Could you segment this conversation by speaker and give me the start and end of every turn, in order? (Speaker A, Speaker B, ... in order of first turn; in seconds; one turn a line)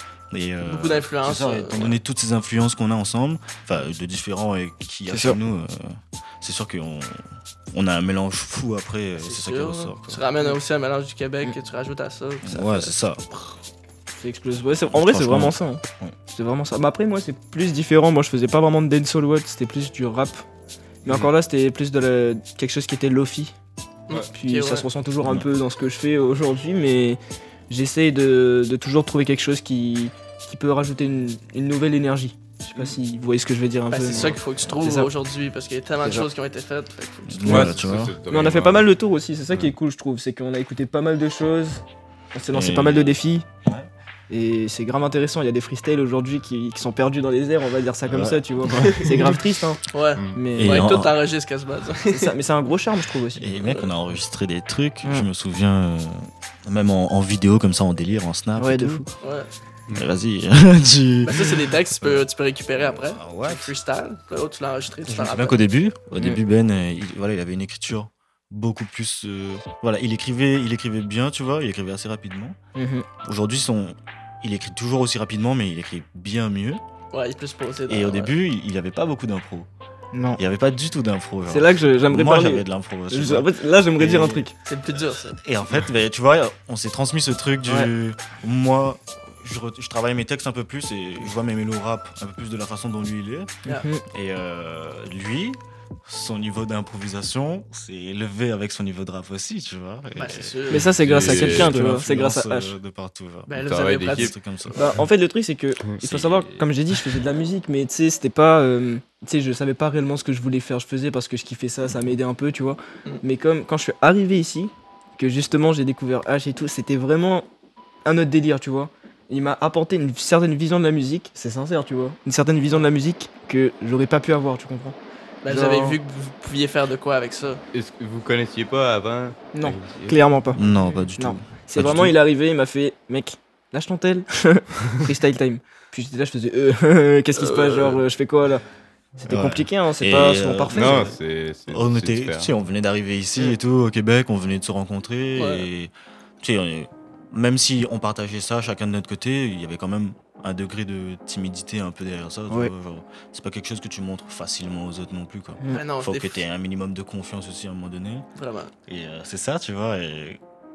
Speaker A: 0.3-10.2
Speaker B: 0.7-2.0
Speaker C: 5.1-5.4
Speaker B: 9.2-12.9
Speaker A: 12.4-13.6
Speaker C: 14.1-20.4
Speaker A: 14.9-16.1
Speaker C: 21.1-23.5
Speaker B: 24.1-24.9
Speaker C: 24.3-35.1
Speaker B: 33.9-37.7
Speaker A: 37.3-38.2
Speaker D: 37.5-38.9
Speaker C: 38.3-41.8
Speaker C: 42.3-43.5
Speaker A: 42.5-43.9
Speaker C: 44.3-49.8
Speaker A: 48.1-49.3
Speaker B: 48.7-52.4
Speaker C: 50.3-50.9
Speaker A: 50.6-51.2
Speaker C: 52.1-53.7
Speaker A: 53.4-59.0
Speaker C: 58.6-59.1
Speaker B: 59.2-59.5
Speaker A: 60.0-62.3
Speaker B: 61.2-65.6
Speaker A: 62.8-63.7
Speaker A: 65.1-72.6
Speaker C: 72.8-73.1
Speaker A: 73.2-76.8
Speaker B: 77.1-78.3
Speaker A: 77.9-79.7
Speaker C: 80.1-80.4
Speaker A: 80.4-93.5
Speaker C: 81.5-84.5
Speaker B: 84.7-85.3
Speaker C: 87.7-87.9
Speaker C: 93.7-94.0
Speaker A: 94.1-104.8
Speaker B: 100.2-100.9
Speaker C: 100.7-102.7
Speaker D: 101.0-101.8
Speaker B: 103.5-104.9
Speaker D: 103.6-104.3
Speaker C: 104.7-117.5
Speaker D: 105.9-107.1
Speaker C: 118.0-126.0
Speaker B: 125.4-127.6
Speaker D: 127.7-130.3
Speaker C: 129.5-130.6
Speaker A: 130.6-132.2
Speaker C: 131.2-138.6
Speaker B: 137.4-138.0
Speaker C: 139.2-141.1
Speaker A: 139.3-141.2
Speaker D: 140.7-142.5
Speaker A: 141.7-158.3
Speaker B: 145.4-145.7
Speaker B: 155.7-156.4
Speaker B: 158.3-158.7
Speaker A: 158.9-160.4